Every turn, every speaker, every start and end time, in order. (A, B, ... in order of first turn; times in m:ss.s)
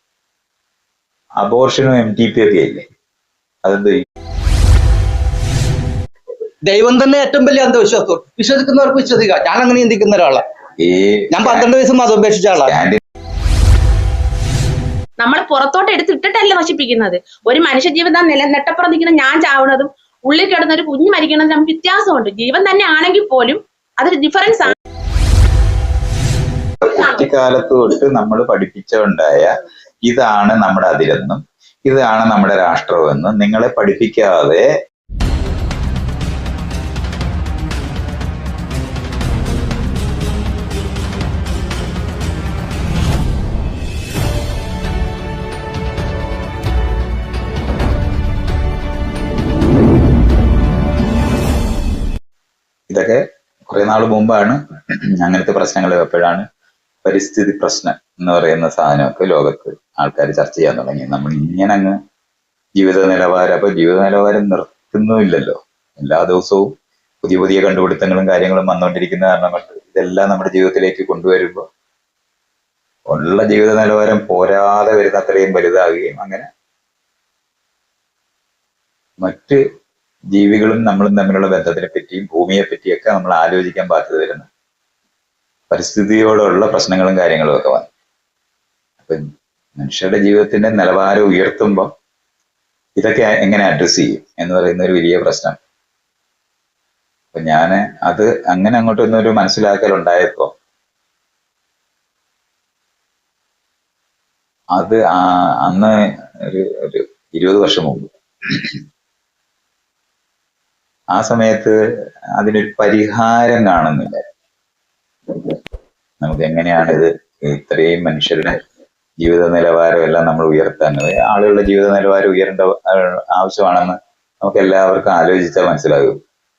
0:01.4-0:02.8 A
0:03.6-0:04.0 A
0:06.6-0:10.4 B
0:10.8-0:11.7 A
0:11.3-0:12.8 B
0:12.6-0:13.0 A
0:15.2-0:24.8 C
0:26.8-0:29.5 A
0:30.1-0:34.7 A
0:52.9-0:54.6 A
0:55.2-0:56.5 A
0:57.0-1:02.0 A
1:02.8-1:11.6 A
1:13.1-1:16.5 A
1:19.2-1:19.6 A
1:20.3-1:24.5 A
1:25.7-1:27.9 A
1:29.8-1:31.9 A
1:33.0-1:35.6 A
1:37.3-1:40.5 A
1:44.7-1:48.8 A
1:51.1-1:51.8 A
1:52.4-1:54.3 A
1:56.2-1:58.6 A
1:59.2-2:06.2 A